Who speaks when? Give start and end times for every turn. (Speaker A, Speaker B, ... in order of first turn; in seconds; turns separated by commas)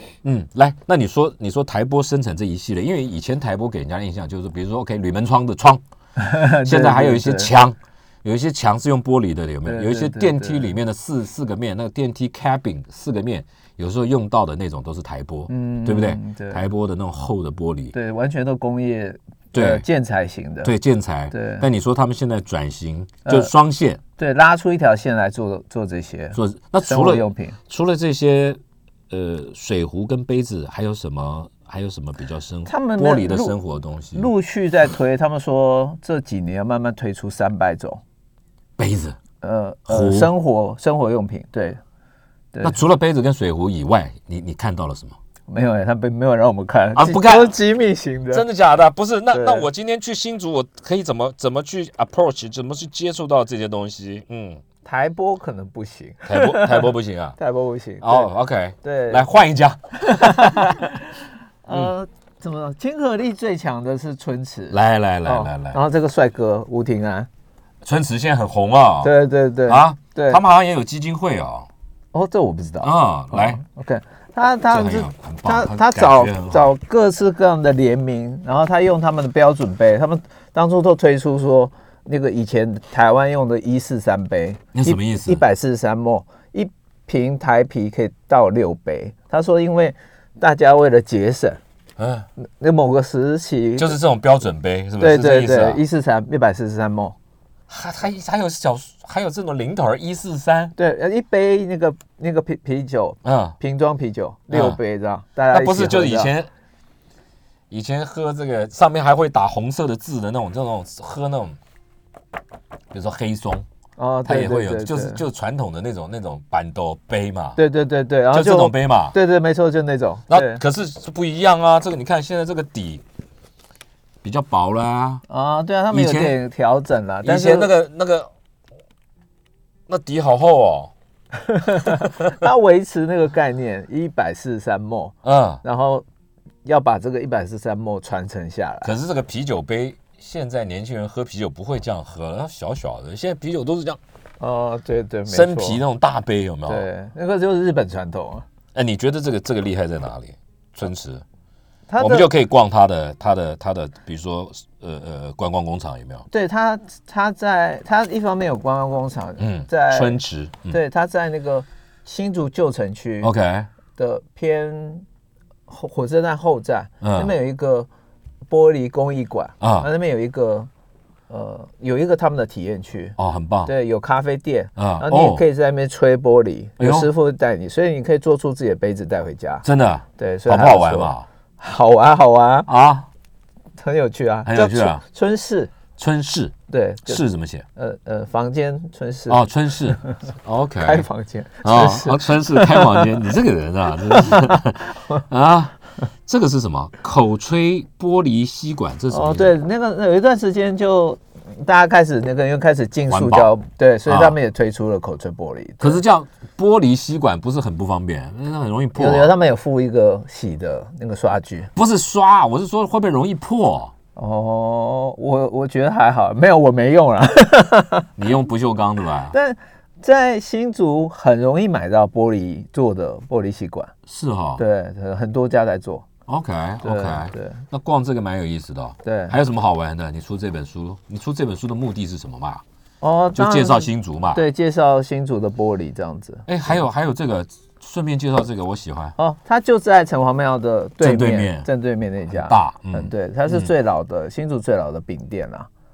Speaker A: 0.2-17.9, Speaker B: 6.2-7.5, Speaker B: 9.6-10.7, Speaker B: 15.5-16.6, Speaker B: 17.9-20.7, Speaker A: 19.5-19.8, Speaker A: 20.6-24.0, Speaker B: 21.3-21.7, Speaker B: 23.2-23.5, Speaker B: 24.2-27.6, Speaker A: 26.3-28.6, Speaker A: 29.1-34.3, Speaker B: 32.6-33.5, Speaker B: 34.1-38.0, Speaker A: 38.8-39.2, Speaker B: 39.4-41.8, Speaker A: 39.9-40.3, Speaker A: 42.6-45.2, Speaker B: 45.5-48.4, Speaker A: 46.9-47.5, Speaker A: 48.3-54.6, Speaker B: 49.3-49.7, Speaker B: 54.8-58.3, Speaker A: 56.2-57.4, Speaker A: 58.0-60.9, Speaker B: 58.8-59.2, Speaker B: 60.0-67.3, Speaker A: 64.7-65.8, Speaker A: 67.8-69.1, Speaker B: 69.0-70.4, Speaker A: 69.7-71.7, Speaker B: 72.1-91.6, Speaker A: 72.8-73.6, Speaker A: 74.7-76.7, Speaker A: 84.7-85.4, Speaker A: 92.0-92.3, Speaker B: 92.4-94.0, Speaker A: 93.8-95.8, Speaker B: 95.0-97.2, Speaker A: 97.7-100.7, Speaker B: 100.8-106.3, Speaker A: 103.2-103.5, Speaker A: 104.5-104.8, Speaker A: 105.5-106.5, Speaker A: 107.7-111.6, Speaker A: 112.9-113.7, Speaker B: 114.0-115.2, Speaker A: 114.2-117.6, Speaker B: 117.6-120.6, Speaker A: 118.3-119.2, Speaker A: 120.3-123.0, Speaker A: 124.2-125.2, Speaker B: 125.3-127.7, Speaker A: 125.9-126.4, Speaker A: 127.2-128.3, Speaker A: 129.9-130.9, Speaker B: 131.5-136.0, Speaker A: 135.2-135.6, Speaker B: 136.6-138.9, Speaker A: 138.8-144.0, Speaker B: 144.4-145.8, Speaker A: 145.3-146.8, Speaker B: 146.7-148.4, Speaker A: 148.7-151.2, Speaker B: 151.9-152.3, Speaker A: 152.0-156.2, Speaker B: 156.3-163.3, Speaker A: 159.4-160.8, Speaker A: 163.2-163.7, Speaker B: 163.9-165.0, Speaker B: 165.7-167.9, Speaker A: 167.0-167.3, Speaker B: 168.5-170.7, Speaker A: 169.6-169.9, Speaker B: 171.3-179.6, Speaker A: 173.2-173.7, Speaker A: 174.8-175.4, Speaker A: 176.8-177.1, Speaker A: 179.6-181.3, Speaker B: 180.2-182.7, Speaker A: 182.7-183.1, Speaker B: 183.8-185.7, Speaker A: 184.4-185.0, Speaker A: 185.9-186.5, Speaker B: 186.7-187.2, Speaker A: 187.1-187.7, Speaker B: 187.8-190.2, Speaker A: 189.3-191.1, Speaker B: 190.8-193.1, Speaker A: 191.6-199.5, Speaker B: 194.0-195.2, Speaker B: 199.1-206.0, Speaker A: 203.1-203.5, Speaker A: 204.1-204.3, Speaker A: 205.8-209.3, Speaker B: 208.9-211.7, Speaker A: 211.8-213.9, Speaker B: 214.2-218.1, Speaker A: 218.2-219.3, Speaker B: 219.3-223.9, Speaker A: 224.1-224.6, Speaker B: 224.6-226.1, Speaker A: 226.3-232.6, Speaker B: 226.8-227.6, Speaker B: 229.0-229.3, Speaker B: 233.0-236.5, Speaker A: 233.3-234.4, Speaker A: 236.5-239.2, Speaker B: 239.2-245.7, Speaker A: 241.0-241.7, Speaker A: 242.3-243.7